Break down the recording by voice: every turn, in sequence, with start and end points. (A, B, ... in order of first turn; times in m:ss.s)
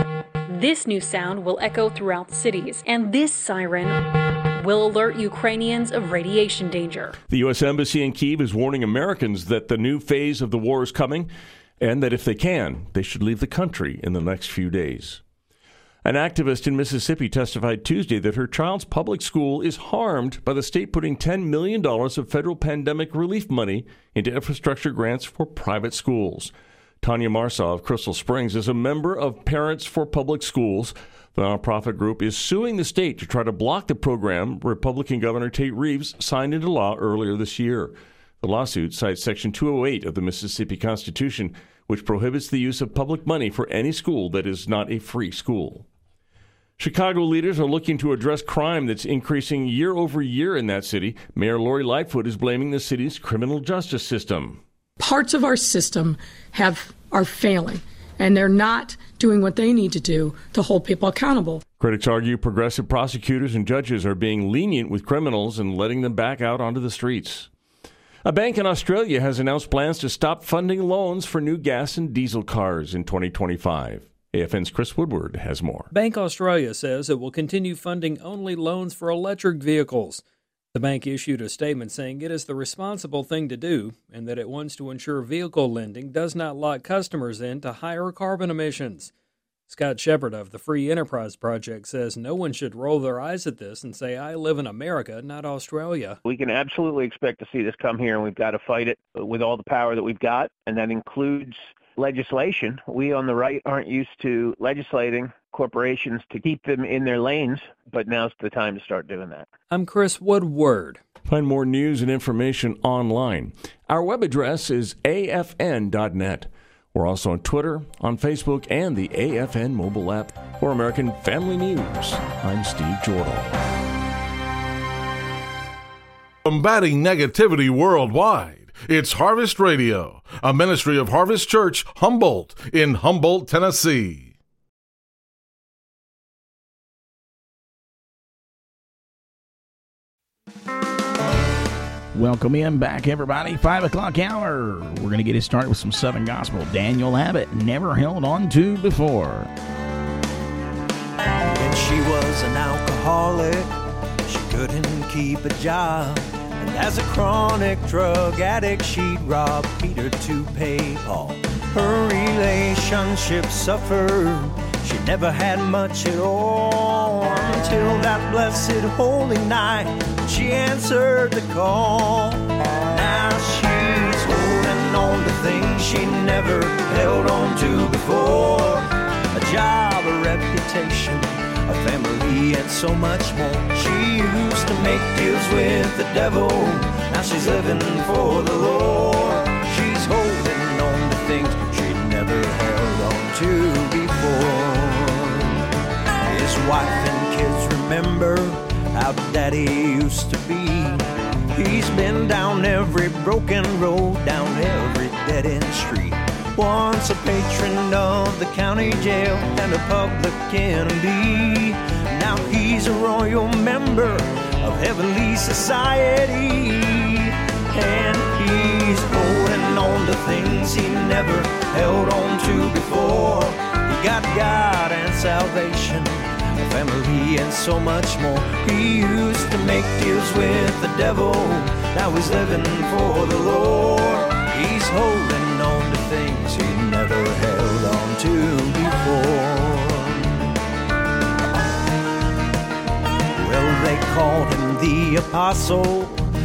0:00.5-0:04.0 A
0:04.6-0:07.2 A
0:07.3-0:15.2 B
0:16.0-0:45.8 B
0:46.8-0:54.6 B
0:55.0-1:01.6 C
1:01.8-1:07.5 B
1:08.2-1:15.9 B
1:15.9-1:20.2 D
1:20.7-1:29.1 D
1:29.7-1:36.2 D
1:36.2-1:49.5 E
1:49.7-1:51.0 D
1:51.3-2:03.6 B
2:06.4-2:14.3 F
2:22.1-2:29.5 G
2:31.5-2:33.7 H
2:34.2-3:15.4 H
3:16.2-3:21.0 H
3:21.5-3:37.2 H
3:37.8-4:00.4 H
4:03.4-4:06.2 H